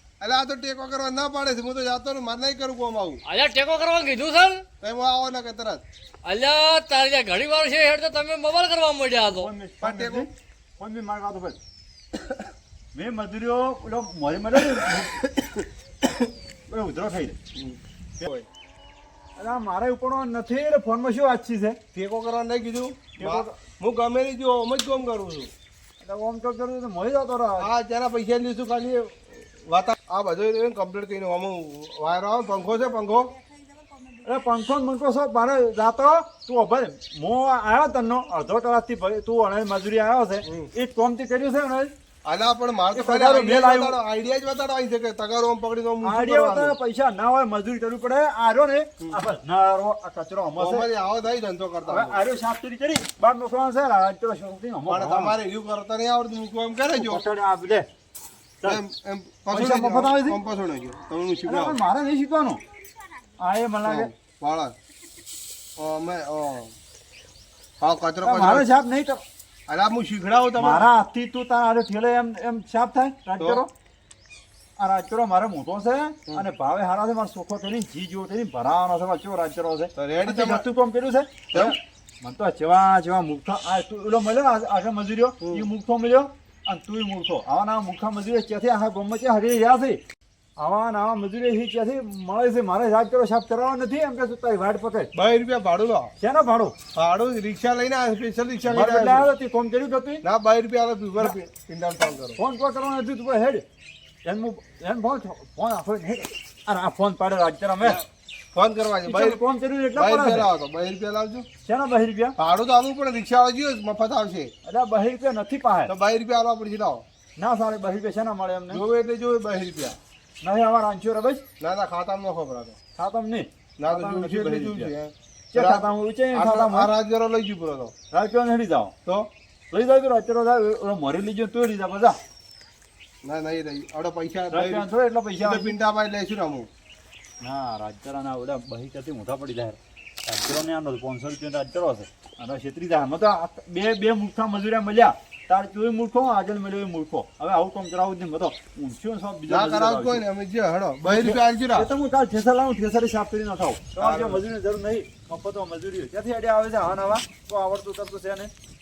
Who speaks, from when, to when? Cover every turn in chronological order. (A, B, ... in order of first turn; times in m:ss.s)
0:00.2-0:03.2 A
0:03.2-0:04.6 B
0:04.8-0:05.8 A
0:06.2-0:09.5 B
0:09.3-0:11.6 C
0:09.8-0:10.2 A
0:12.9-0:15.1 C
0:16.7-0:17.4 C
0:19.4-0:21.8 C
0:22.0-0:25.5 A
0:23.2-0:23.6 C
0:26.0-0:27.7 C
0:27.6-0:29.1 A
0:29.7-0:33.3 A
0:34.2-0:41.9 C
0:42.3-0:46.7 A
0:42.9-0:44.0 C
0:46.0-0:50.9 C
0:50.6-0:52.2 A
0:51.8-0:55.4 C
0:54.9-0:57.2 A
0:56.9-0:57.9 C
0:58.8-1:01.8 A
0:59.5-1:00.4 C
1:01.4-1:02.6 C
1:03.4-1:04.1 C
1:03.9-1:04.7 A
1:05.8-1:06.7 A
1:07.8-1:08.6 A
1:08.2-1:09.2 C
1:09.7-1:10.9 A
1:10.6-1:13.7 C
1:14.8-1:30.0 C
1:20.0-1:20.6 A
1:30.6-1:35.1 C
1:35.2-1:36.1 A
1:36.2-1:36.8 C
1:37.0-1:39.3 A
1:38.6-1:40.2 C
1:40.3-1:42.4 A
1:42.4-1:43.6 C
1:44.2-1:48.0 C
1:48.6-1:49.4 A
1:49.1-1:50.5 C
1:50.0-1:51.5 A
1:51.6-1:52.4 C
1:52.4-1:54.5 A
1:54.6-1:55.9 C
1:55.9-1:57.0 A
1:57.4-1:58.8 C
1:58.7-2:00.0 A
2:00.4-2:01.4 C
2:01.6-2:02.8 A
2:03.0-2:04.9 C
2:03.8-2:05.8 A
2:05.5-2:06.9 C
2:06.4-2:07.9 A
2:08.1-2:08.9 C
2:09.7-2:12.2 C
2:13.3-2:14.8 A
2:14.5-2:15.7 C
2:15.4-2:16.7 A
2:17.4-2:30.2 C
2:29.7-2:31.6 A
2:31.0-2:38.5 C
2:34.0-2:34.4 A